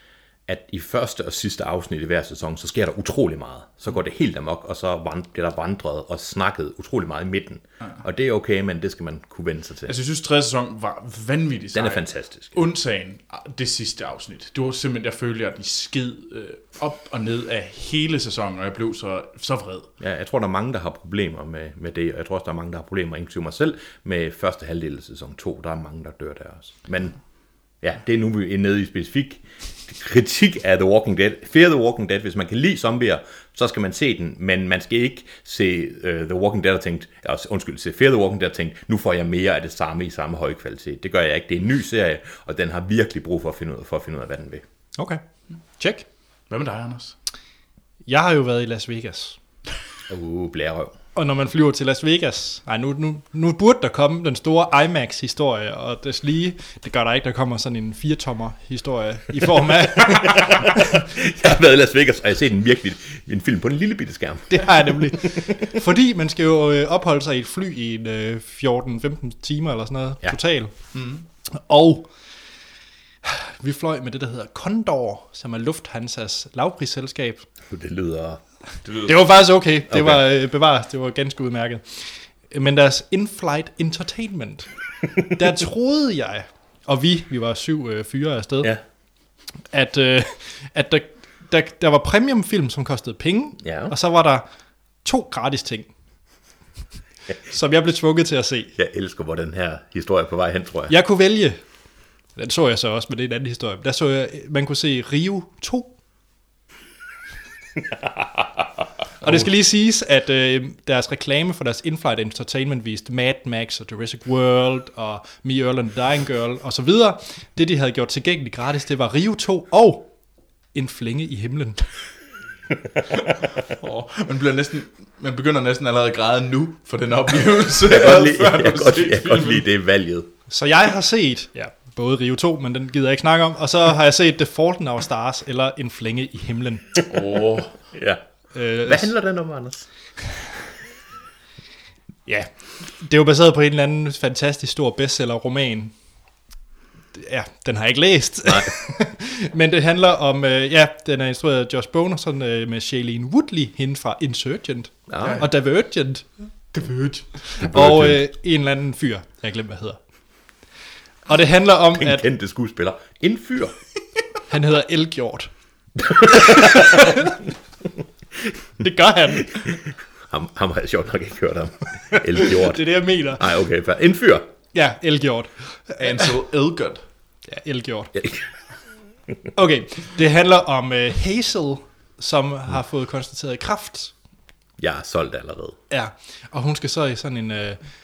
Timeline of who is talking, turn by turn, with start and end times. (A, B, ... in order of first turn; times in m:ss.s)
0:00.5-0:10.0 A
0:09.9-0:19.9 B
0:11.7-0:12.6 A
0:20.0-0:27.2 A
0:27.8-0:44.6 A
0:45.8-0:46.1 C
0:46.5-0:47.2 B
0:48.1-0:49.4 C
0:50.1-0:51.0 A
0:51.2-1:00.8 C
1:00.1-1:05.6 A
1:04.5-1:10.7 C
1:10.9-1:11.2 B
1:11.5-1:12.1 C
1:13.2-1:17.5 C
1:17.7-1:19.3 A
1:19.0-1:24.7 C
1:19.9-1:20.2 A
1:25.2-1:28.8 C
1:29.7-1:34.4 C
1:33.6-1:33.9 A
1:35.0-1:35.9 C
1:37.5-1:38.7 C
1:38.8-1:41.0 A
1:40.9-1:41.6 C
1:42.4-1:45.9 C
1:47.9-1:48.4 A
1:49.2-2:00.1 C
2:00.7-2:01.9 C
2:03.7-2:09.6 B
2:07.8-2:10.3 A
2:10.5-2:17.0 C
2:17.1-2:17.7 B
2:17.9-2:18.2 A
2:18.5-2:19.1 C
2:18.8-2:19.9 A
2:22.3-2:25.9 C
2:27.2-2:36.3 C
2:28.5-2:28.7 A
2:35.1-2:35.4 A
2:35.2-2:35.5 B
2:36.7-2:37.3 B
2:37.5-2:40.0 C
2:37.6-2:38.2 A
2:41.3-2:42.3 C
2:42.0-2:43.8 A
2:44.5-2:45.5 C
2:46.0-2:47.2 A
2:46.4-2:47.3 C
2:48.8-2:49.6 C
2:50.3-2:54.5 A
2:52.3-2:53.4 C
2:54.7-2:56.1 C
2:56.0-2:57.0 B
2:57.5-2:58.2 C
2:59.6-3:04.1 C
3:04.8-3:05.8 A
3:05.9-3:07.8 C